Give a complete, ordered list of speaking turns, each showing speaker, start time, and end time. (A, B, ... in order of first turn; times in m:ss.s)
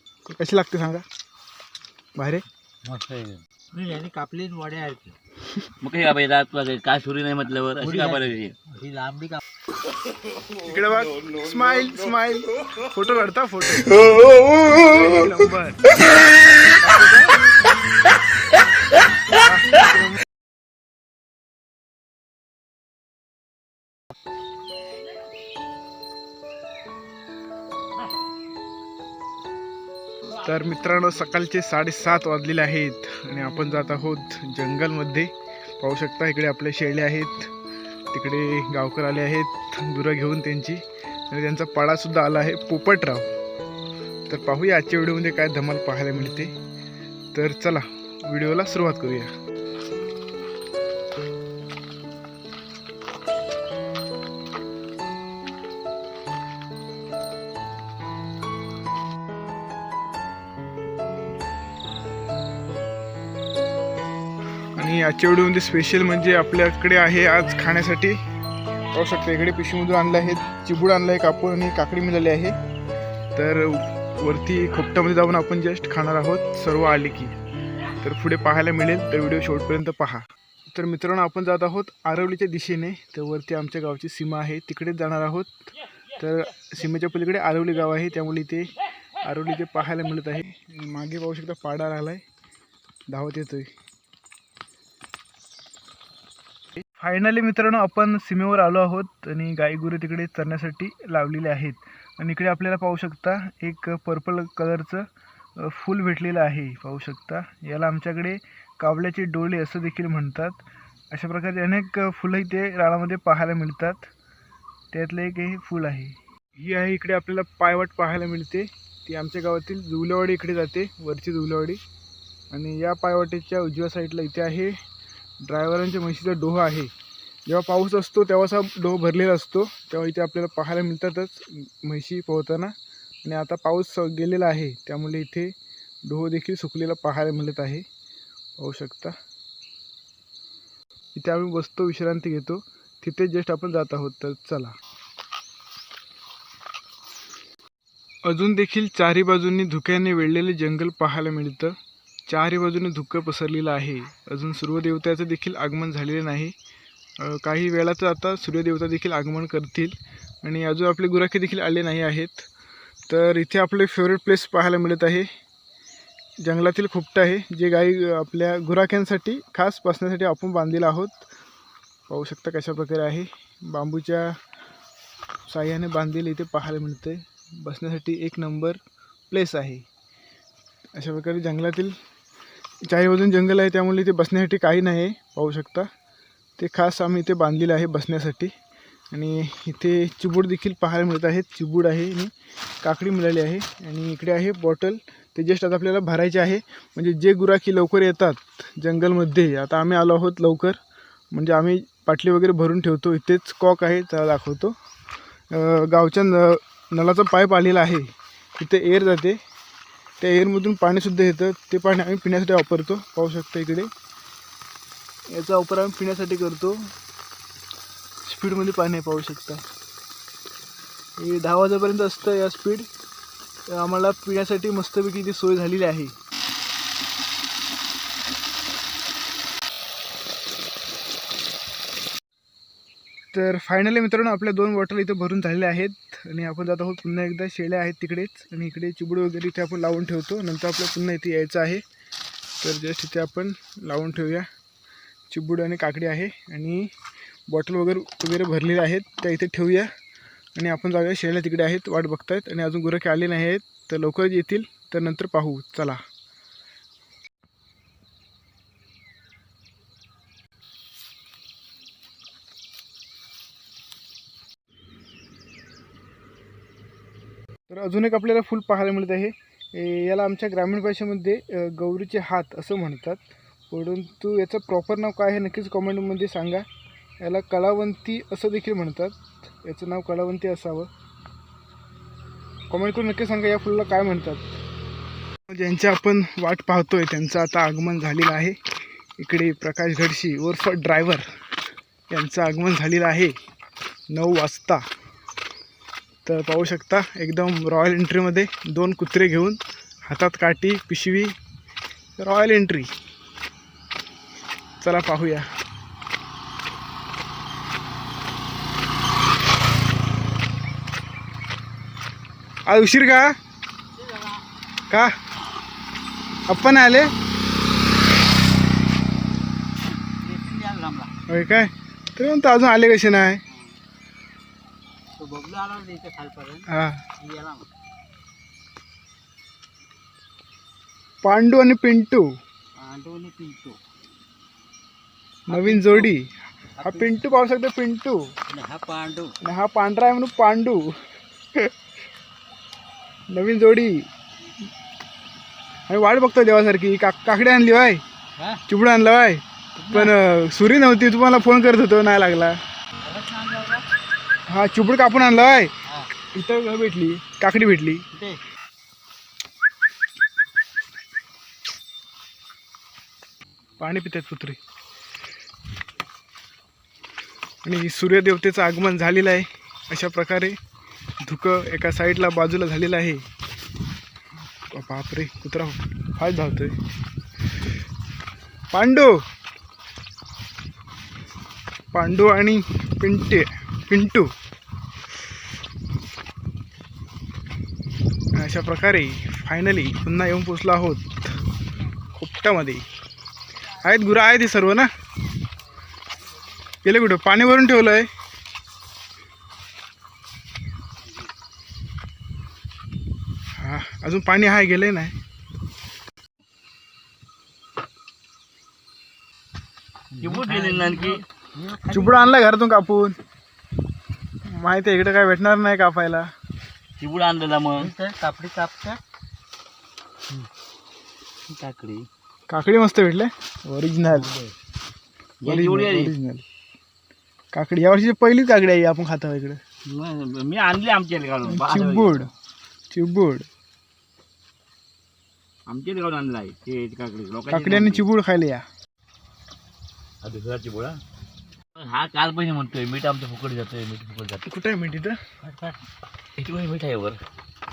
0:00.3-0:01.0 A
0:02.2-0:02.4 A
0:02.8-0:05.2 B
0:05.8-0:08.5 C
0:07.8-0:09.4 B
0:10.6-0:15.9 A
0:16.7-0:17.4 A
0:19.3-0:20.1 A
0:30.4-0:37.5 A
0:38.1-0:43.3 A
0:44.3-0:46.5 A
0:47.3-0:49.3 A
1:04.8-1:08.2 A
1:08.9-1:12.5 A
1:13.4-1:17.3 A
1:18.0-1:28.7 A
1:29.2-1:32.2 A
1:33.1-1:33.7 A
1:36.8-1:45.0 A
1:45.6-1:54.1 A
1:54.9-2:01.8 A
2:02.5-2:04.7 A
2:05.4-2:06.9 A
2:07.5-2:12.7 A
2:13.2-2:15.5 A
2:16.0-2:17.8 A
2:18.6-2:19.1 A
2:21.1-2:24.8 A
2:28.2-2:31.7 A
2:32.3-2:36.5 A
2:37.2-2:42.5 A
2:43.1-2:45.2 A
2:46.4-2:51.2 A
2:52.1-2:54.3 A
2:55.5-2:58.8 A
2:59.3-2:59.8 A
3:00.9-3:02.0 A
3:02.8-3:05.9 A
3:06.6-3:08.5 A
3:09.1-3:20.8 A
3:21.3-3:24.8 A
3:25.5-3:29.4 A
3:30.2-3:33.9 A
3:35.3-3:36.9 A
3:38.2-3:39.6 A
3:41.2-3:42.9 A
3:43.7-3:46.1 A
3:53.3-4:01.8 A
4:02.6-4:04.4 A
4:05.3-4:06.9 A
4:07.5-4:09.9 A
4:10.5-4:16.0 A
4:27.7-4:36.6 A
4:37.2-4:40.9 A
4:42.7-4:44.4 A
4:45.5-4:48.6 A
4:49.2-4:51.2 A
4:52.1-4:53.3 A
4:54.1-4:54.8 A
4:56.2-5:01.3 A
5:02.2-5:02.9 A
5:04.8-5:05.5 A
5:12.6-5:13.3 A
5:14.0-5:14.5 B
5:16.5-5:17.1 A
5:19.9-5:21.2 B
5:21.3-5:23.4 A
5:23.5-5:23.7 B
5:25.2-5:27.7 B
5:26.7-5:27.0 A
5:31.2-5:32.3 A
5:32.8-5:33.8 B
5:35.5-5:36.1 B
5:35.5-5:36.3 A
5:36.8-5:37.2 B
5:36.8-5:38.2 A
5:38.5-5:39.3 B
5:39.4-5:40.9 A
5:43.3-5:44.1 A
5:45.9-5:48.0 A
5:48.4-5:48.6 B
5:48.7-5:52.6 A
5:49.8-5:50.2 B
5:53.0-5:53.8 B
5:54.5-5:55.7 A
5:56.3-5:58.0 A
5:58.1-5:58.4 B
6:03.8-6:04.6 A
6:07.6-6:10.6 A
6:11.2-6:13.2 A
6:14.7-6:16.8 A
6:18.7-6:19.2 A
6:21.9-6:24.3 A
6:28.4-6:31.2 A
6:32.1-6:32.8 A
6:33.8-6:34.9 A
6:36.8-6:38.1 A
6:43.6-6:45.1 A
6:50.1-6:52.4 B
6:50.2-6:51.2 C
6:51.9-6:53.2 A
6:54.5-6:56.3 A
6:57.0-6:57.9 C
6:57.8-6:59.0 B
7:01.5-7:02.1 B
7:02.5-7:04.3 A
7:04.1-7:04.5 B
7:05.4-7:06.1 C
7:05.4-7:06.4 A
7:07.5-7:09.6 A
7:09.8-7:12.2 C
7:11.4-7:12.3 A
7:12.9-7:13.5 A
7:15.7-7:18.1 C
7:17.5-7:18.6 A
7:20.2-7:21.0 C
7:21.8-7:24.4 C
7:24.4-7:25.2 A
7:25.4-7:25.8 B
7:26.4-7:27.2 C